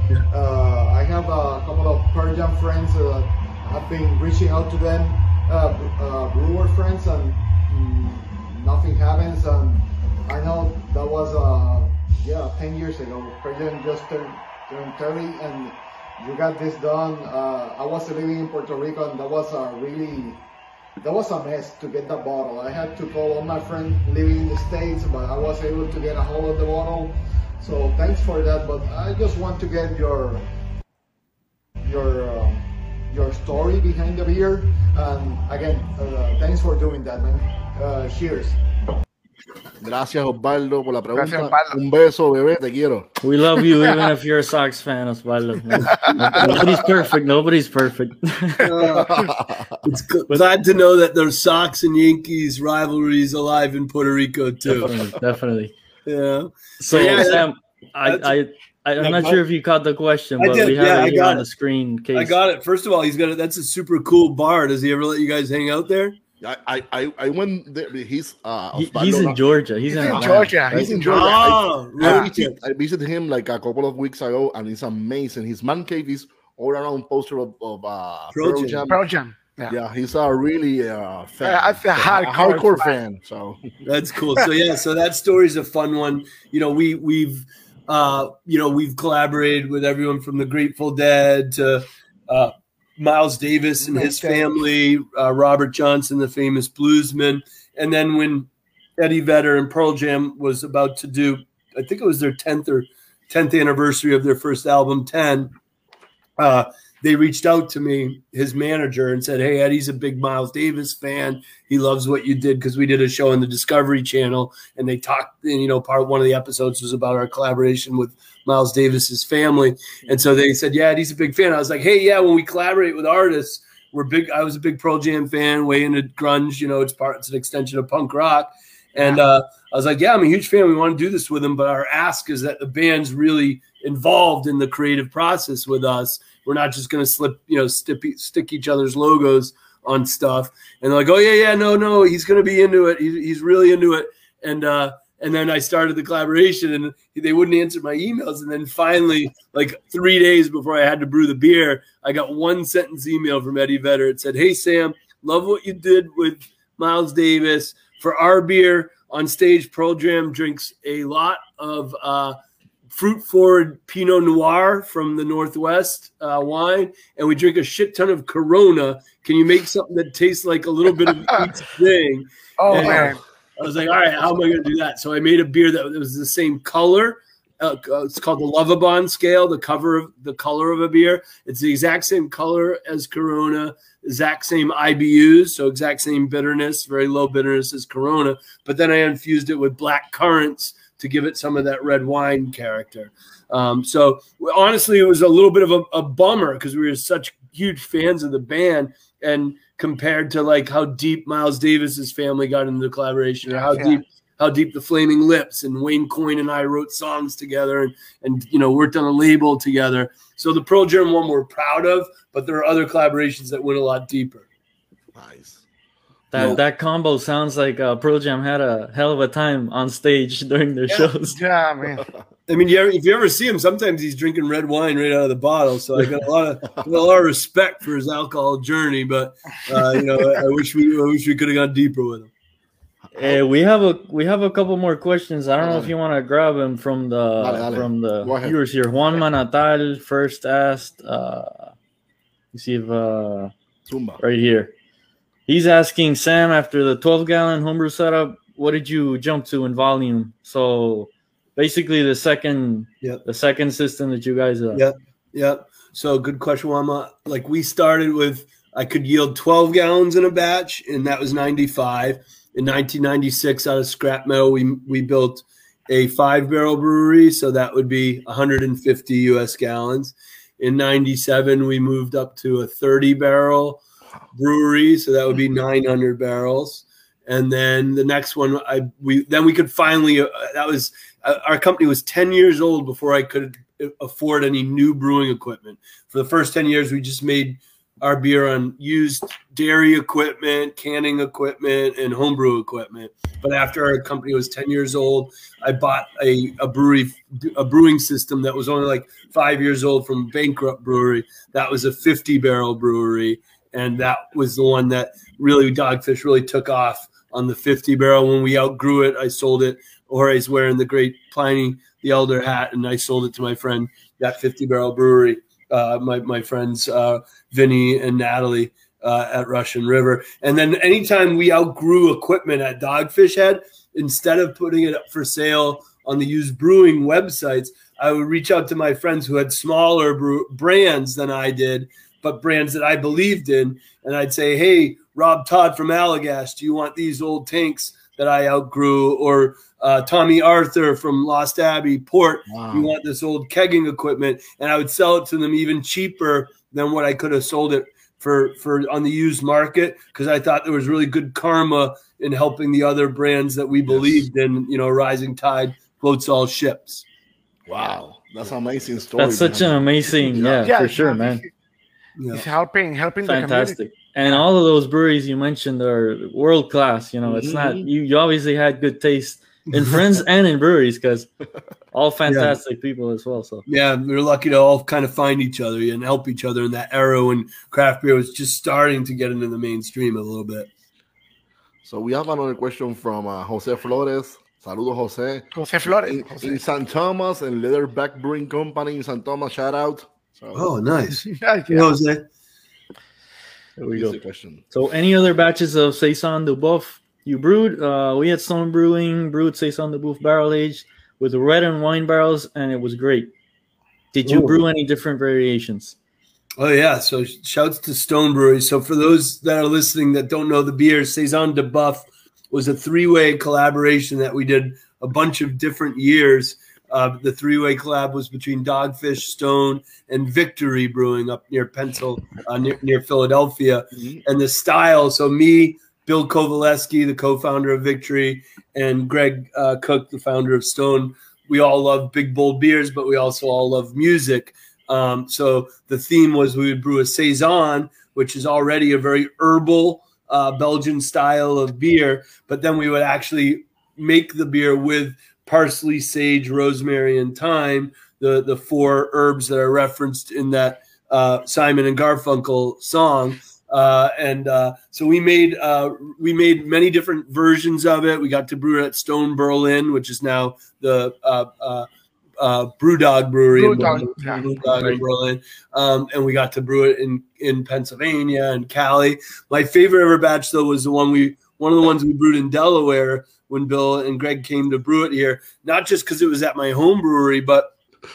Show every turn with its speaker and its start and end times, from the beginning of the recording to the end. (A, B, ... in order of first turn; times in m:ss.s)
0:00.3-0:20.4 A
0:21.0-0:30.5 A
0:31.8-0:38.6 A
0:39.8-0:43.1 B
0:41.1-0:41.8 C
0:43.2-0:48.6 D
0:45.8-0:46.6 C
0:48.6-0:49.2 E
0:48.8-0:49.8 B
0:49.8-0:54.9 E
0:54.7-0:55.7 D
0:56.1-0:57.5 E
0:56.8-1:02.4 D
0:58.0-0:58.4 E
0:59.0-0:59.4 E
1:00.4-1:01.5 E
1:02.2-1:06.2 E
1:06.4-1:09.4 B
1:08.7-1:10.6 D
1:09.9-1:12.3 C
1:10.1-1:12.5 E
1:10.7-1:19.0 B
1:18.3-1:18.8 E
1:18.9-1:19.8 C
1:19.7-1:23.8 B
1:21.4-1:22.9 C
1:23.8-1:45.5 E
1:33.9-1:34.5 C
1:46.4-2:42.4 E
2:42.9-3:34.5 E
2:52.6-2:53.2 C
3:23.4-3:24.0 C
3:35.2-3:35.6 B
3:36.3-3:41.4 D
3:36.4-3:36.6 E
3:40.9-3:42.1 C
3:41.8-3:42.2 B
3:42.5-3:52.3 E
3:53.1-3:53.4 B
3:53.2-4:01.8 D
3:55.6-3:55.9 B
3:57.4-3:58.6 B
4:02.5-4:03.5 D
4:03.9-4:04.2 B
4:04.2-4:04.7 D
4:05.5-4:14.8 D
4:14.7-4:33.8 E
4:34.3-5:57.0 E
5:42.5-5:42.9 B
5:53.9-5:54.2 B
5:57.7-6:00.7 B
5:59.2-6:01.4 D
6:00.6-6:01.5 C
6:02.2-6:02.5 E
6:02.3-6:04.4 C
6:03.2-6:11.3 D
6:07.2-6:07.9 B
6:09.7-6:10.0 E
6:11.9-6:13.6 D
6:12.3-6:12.6 E
6:13.7-6:20.7 E
6:21.8-6:30.7 B
6:25.6-6:26.6 C
6:30.5-6:32.3 E
6:31.2-6:31.9 C
6:33.8-6:34.2 D
6:33.9-6:34.6 B
6:34.7-6:43.3 D
6:44.1-6:46.0 D
6:44.2-6:44.6 E
6:46.6-7:41.9 E
7:03.9-7:04.2 B
7:42.4-7:57.7 E
7:43.5-7:44.5 C
7:44.6-7:45.0 D